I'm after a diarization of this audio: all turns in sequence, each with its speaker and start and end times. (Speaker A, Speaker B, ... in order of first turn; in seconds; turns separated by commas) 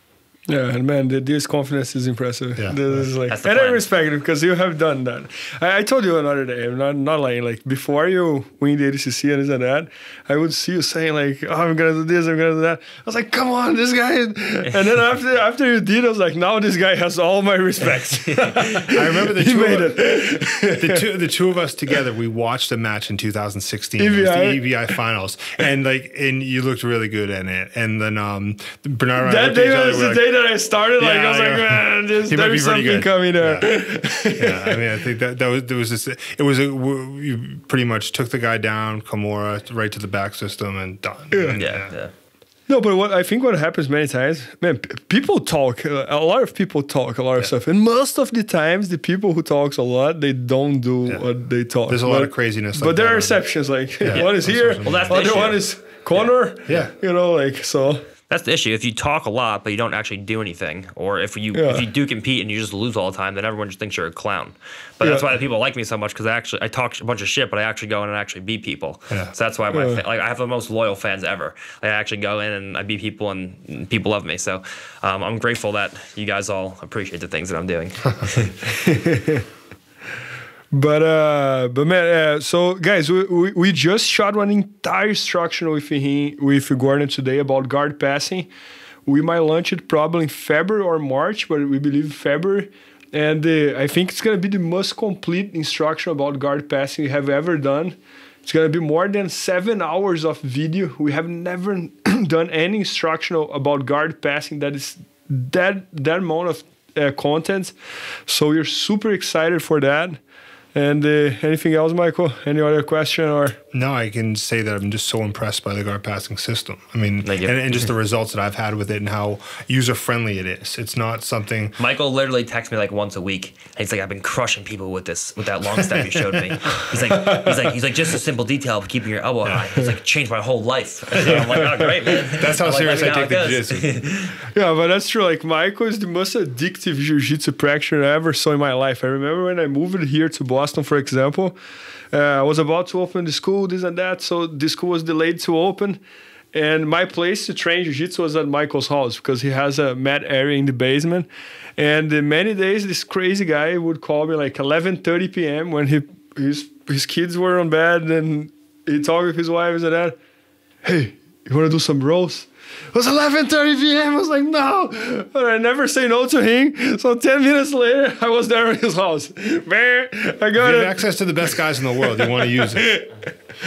Speaker A: 0.5-21.1, Speaker B: 2.6-3.1, Speaker C: 3.3-3.9, Speaker B: 18.8-30.3, Speaker A: 24.0-24.7, Speaker A: 29.2-34.8, Speaker B: 31.0-33.7, Speaker B: 34.3-41.9, Speaker A: 41.3-41.6, Speaker C: 41.6-42.1, Speaker A: 42.7-58.0, Speaker B: 51.9-53.4, Speaker B: 54.0-55.6, Speaker C: 54.1-56.3, Speaker B: 56.7-56.9, Speaker C: 58.3-78.5, Speaker A: 61.5-61.8, Speaker A: 69.7-70.0, Speaker A: 78.7-79.4, Speaker A: 80.7-88.5, Speaker A: 89.0-107.7, Speaker A: 108.3-110.2, Speaker A: 110.7-113.6, Speaker B: 113.7-121.8, Speaker C: 117.2-117.9, Speaker C: 121.8-134.4, Speaker A: 127.1-127.7, Speaker A: 131.2-131.9, Speaker B: 132.3-134.0, Speaker A: 134.5-141.6, Speaker A: 142.1-146.0, Speaker A: 146.5-160.2, Speaker A: 160.8-171.0, Speaker B: 170.5-173.0, Speaker A: 172.0-173.1